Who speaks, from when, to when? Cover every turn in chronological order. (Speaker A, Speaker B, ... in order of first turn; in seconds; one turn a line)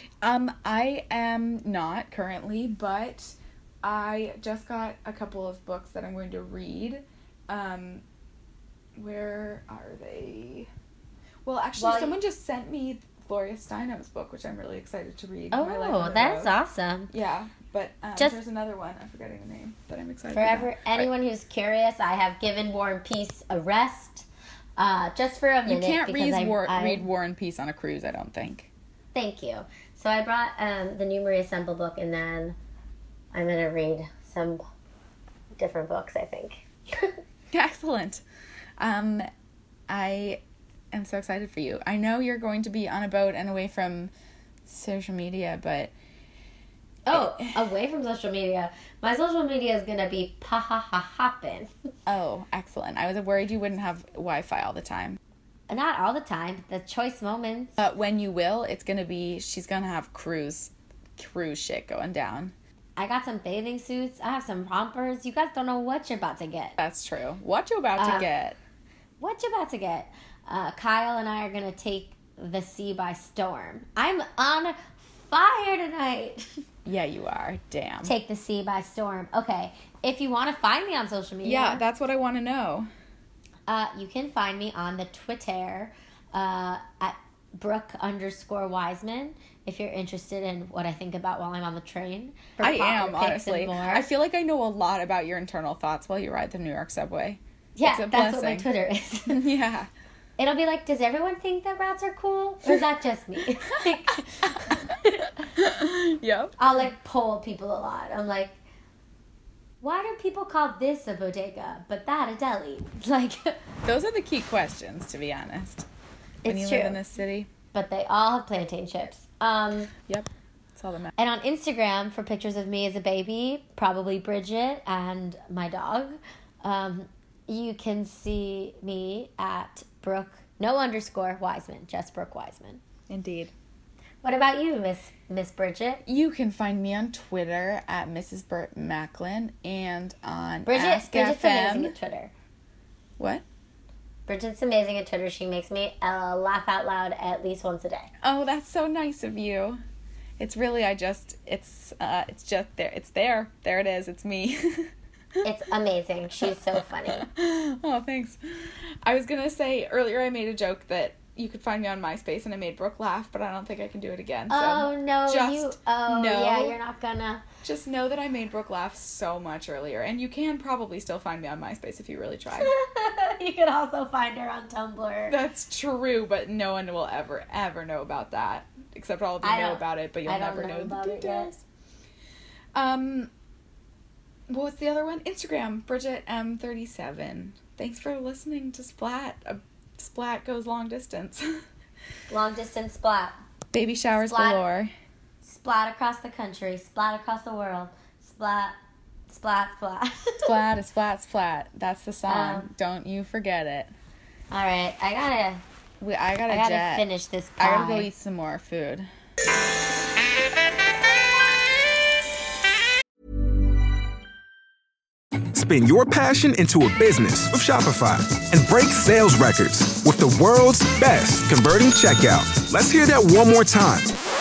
Speaker A: 0.2-8.0
Speaker A: 8.9-10.7
Speaker A: 11.4-16.5
Speaker B: 11.8-12.2
Speaker B: 15.5-17.1
Speaker A: 17.1-21.1
Speaker B: 20.3-24.2
Speaker B: 24.8-27.1
Speaker A: 25.6-28.7
Speaker B: 29.1-32.5
Speaker B: 33.3-34.6
Speaker B: 35.5-37.2
Speaker A: 37.5-38.2
Speaker A: 38.8-39.3
Speaker A: 39.9-40.4
Speaker A: 40.9-44.1
Speaker A: 44.6-45.9
Speaker B: 47.0-51.7
Speaker A: 47.1-47.6
Speaker A: 52.0-55.2
Speaker B: 55.7-57.8
Speaker A: 57.8-62.5
Speaker B: 63.0-66.8
Speaker A: 66.8-68.6
Speaker B: 68.0-68.3
Speaker B: 69.2-76.5
Speaker A: 76.8-78.1
Speaker B: 78.0-81.8
Speaker A: 81.4-82.9
Speaker B: 83.7-94.0
Speaker A: 92.6-98.7
Speaker B: 97.8-99.4
Speaker A: 99.3-99.9
Speaker B: 100.4-105.5
Speaker A: 103.7-105.0
Speaker A: 105.5-106.6
Speaker B: 106.6-108.5
Speaker B: 109.8-113.6
Speaker A: 113.8-115.8
Speaker B: 116.4-117.0
Speaker A: 116.4-117.5
Speaker B: 117.7-119.9
Speaker A: 120.0-121.1
Speaker B: 121.2-132.8
Speaker A: 133.1-133.5
Speaker B: 134.2-136.0
Speaker A: 136.1-141.9
Speaker B: 140.7-142.3
Speaker A: 143.2-143.4
Speaker B: 144.3-148.1
Speaker A: 148.2-149.8
Speaker A: 150.4-155.4
Speaker B: 155.4-157.2
Speaker A: 157.1-166.8
Speaker B: 164.5-167.4
Speaker A: 167.6-172.7
Speaker B: 172.5-175.4
Speaker A: 175.3-181.6
Speaker B: 179.4-181.5
Speaker A: 182.7-183.3
Speaker A: 184.5-191.6
Speaker B: 192.3-193.4
Speaker A: 193.7-194.9
Speaker B: 194.2-194.6
Speaker B: 195.4-198.7
Speaker B: 199.3-200.5
Speaker A: 200.4-203.9
Speaker B: 202.3-202.7
Speaker B: 204.5-205.6
Speaker A: 206.0-207.1
Speaker B: 206.5-208.1
Speaker A: 207.6-209.1
Speaker C: 215.5-224.1